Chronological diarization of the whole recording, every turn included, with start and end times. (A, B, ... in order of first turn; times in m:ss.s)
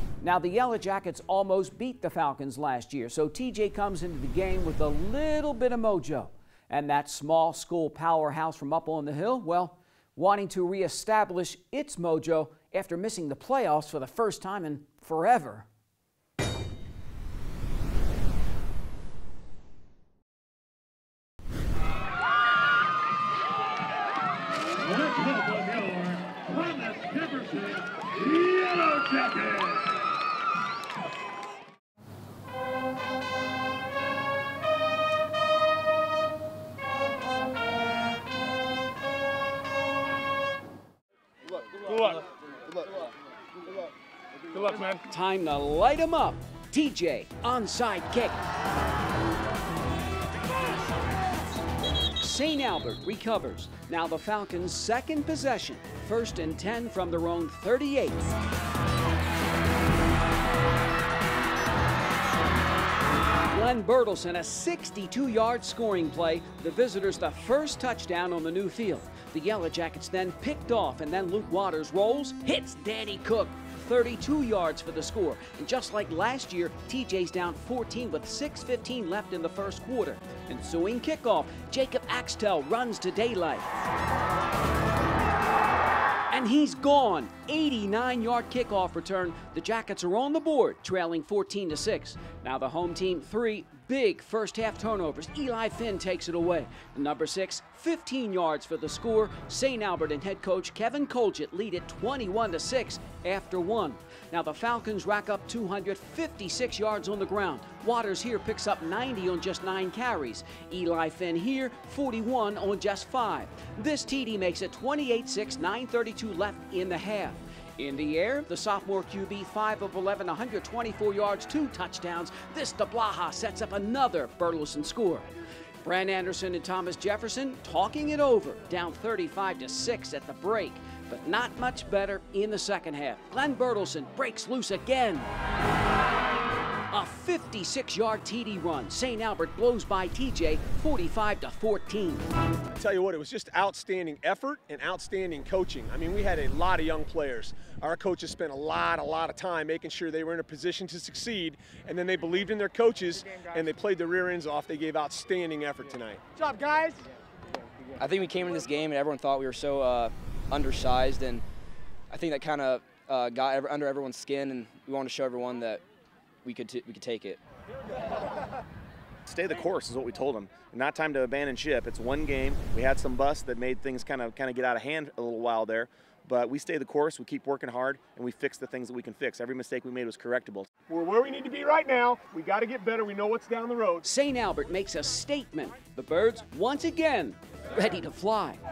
0:00.2-0:15.7 A
0:25.0-0:27.7 B
0:28.5-0:29.5 B
0:44.9-0:48.4 A
0:52.2-0:58.3 A
1:03.5-1:23.8 A
1:26.3-2:05.3 A
2:05.8-2:15.3 A
2:16.9-2:22.2 A
2:22.7-2:37.0 C
2:38.0-2:41.4 D
2:42.1-2:45.8 D
2:46.4-2:47.4 D
2:49.3-3:00.7 E
3:00.9-3:04.0 C
3:04.0-3:08.6 A